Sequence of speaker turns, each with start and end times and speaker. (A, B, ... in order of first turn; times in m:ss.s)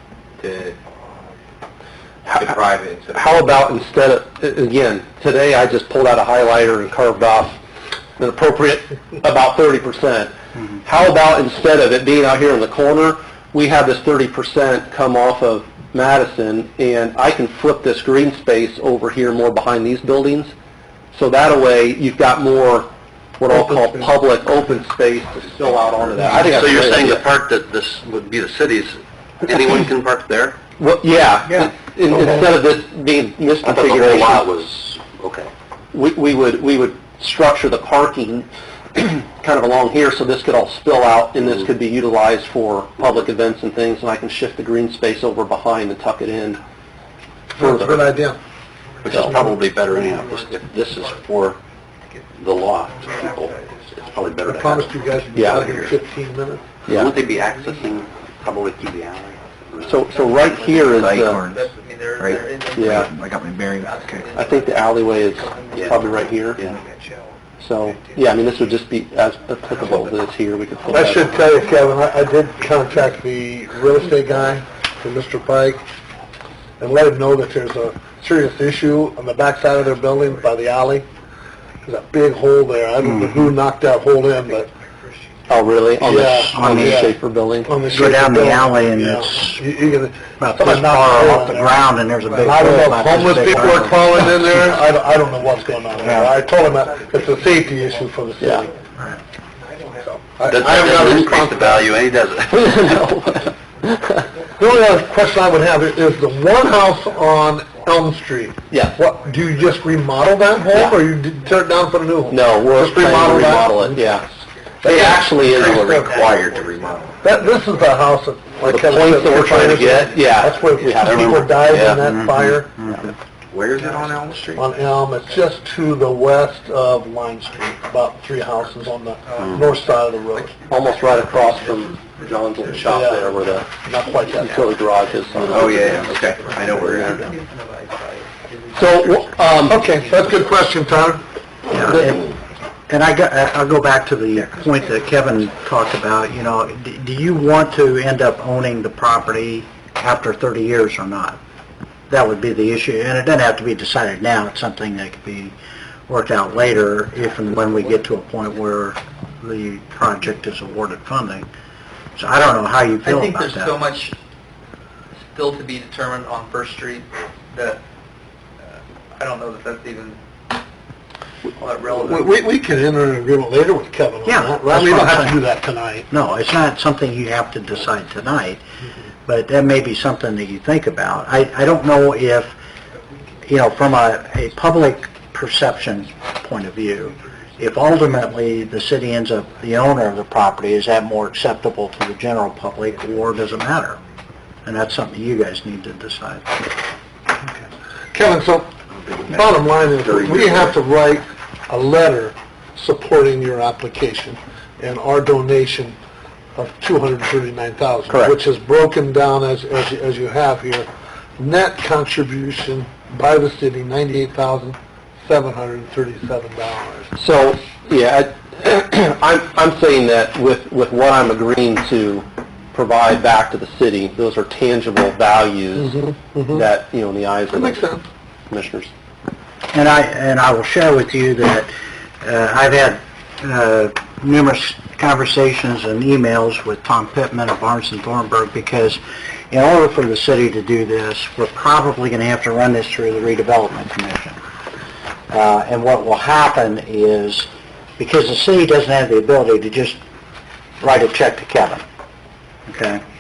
0:00.4-0:00.8 A
0:02.3-0:02.6 B
0:02.3-0:03.6 A
0:03.1-0:07.6 B
0:08.2-0:10.3 B
0:10.8-0:20.5 B
0:21.1-0:27.2 B
0:26.2-0:30.6 A
0:30.8-0:34.5 B
0:31.5-0:32.6 A
0:33.6-0:35.5 A
0:35.9-0:46.6 B
0:47.6-0:48.4 C
0:47.6-0:48.0 B
0:48.8-0:56.0 D
0:49.0-0:51.6 A
0:49.1-0:49.4 B
0:52.4-0:54.9 A
0:54.5-0:56.6 C
0:55.3-0:55.7 B
0:55.6-0:55.9 A
0:56.9-0:57.1 B
0:56.9-1:00.1 A
0:57.0-0:58.2 D
0:59.3-1:08.8 D
0:59.8-1:01.4 B
1:00.7-1:04.3 A
1:02.8-1:03.1 B
1:04.3-1:06.6 B
1:07.6-1:11.4 B
1:09.5-1:13.3 D
1:10.9-1:15.8 C
1:13.8-1:15.0 D
1:16.8-1:21.1 C
1:19.6-1:20.6 D
1:21.8-1:24.7 C
1:23.0-1:23.5 E
1:24.2-1:26.5 D
1:25.5-1:27.8 B
1:26.0-1:31.8 C
1:26.5-1:27.0 E
1:27.9-1:29.6 E
1:27.9-1:28.9 D
1:30.0-1:42.7 D
1:30.4-1:34.3 E
1:32.4-1:38.7 C
1:38.4-1:38.7 B
1:40.4-1:41.9 C
1:40.5-1:42.7 A
1:42.5-1:44.2 B
1:43.5-1:48.4 D
1:44.6-1:54.0 C
1:48.7-1:49.0 B
1:49.0-2:00.9 D
1:50.7-1:51.0 B
1:52.3-1:54.3 B
1:54.8-1:55.2 C
1:54.8-1:56.2 B
1:55.2-1:57.2 A
1:55.7-1:56.2 C
1:57.2-2:02.8 C
1:58.6-2:02.0 B
2:01.1-2:02.0 A
2:02.0-2:03.1 E
2:03.5-2:04.6 A
2:03.7-2:05.7 D
2:04.6-2:10.5 C
2:07.4-2:20.8 D
2:10.7-2:13.7 B
2:12.8-2:14.7 C
2:14.4-2:17.2 B
2:15.5-2:17.3 A
2:18.8-2:19.8 B
2:19.6-2:22.2 C
2:21.7-2:22.3 E
2:21.7-2:22.3 D
2:22.9-2:31.4 E
2:24.4-2:25.5 D
2:32.1-2:35.6 E
2:36.1-2:41.5 E
2:37.3-2:38.1 D
2:42.2-2:44.1 E
2:43.0-2:44.2 D
2:45.3-2:47.8 D
2:48.6-2:50.2 D
2:51.5-2:52.4 D
2:52.0-2:56.1 C
2:54.2-2:55.4 E
2:56.1-2:58.6 E
2:59.3-3:02.6 E
3:02.9-3:04.7 D
3:03.5-3:14.0 E
3:05.7-3:06.2 D
3:06.9-3:08.7 D
3:12.9-3:14.0 D
3:14.6-3:16.7 E
3:17.3-3:18.7 C
3:19.1-3:19.4 A
3:19.3-3:26.0 C
3:20.0-3:20.8 A
3:26.6-3:37.1 C
3:28.1-3:28.4 B
3:37.2-3:47.8 B
3:45.8-3:46.7 C
3:47.5-3:48.1 C
3:48.5-3:48.9 B
3:49.7-3:51.7 E
3:52.2-4:04.4 E
4:05.3-4:10.0 E
4:10.8-4:11.8 E
4:12.7-4:13.0 E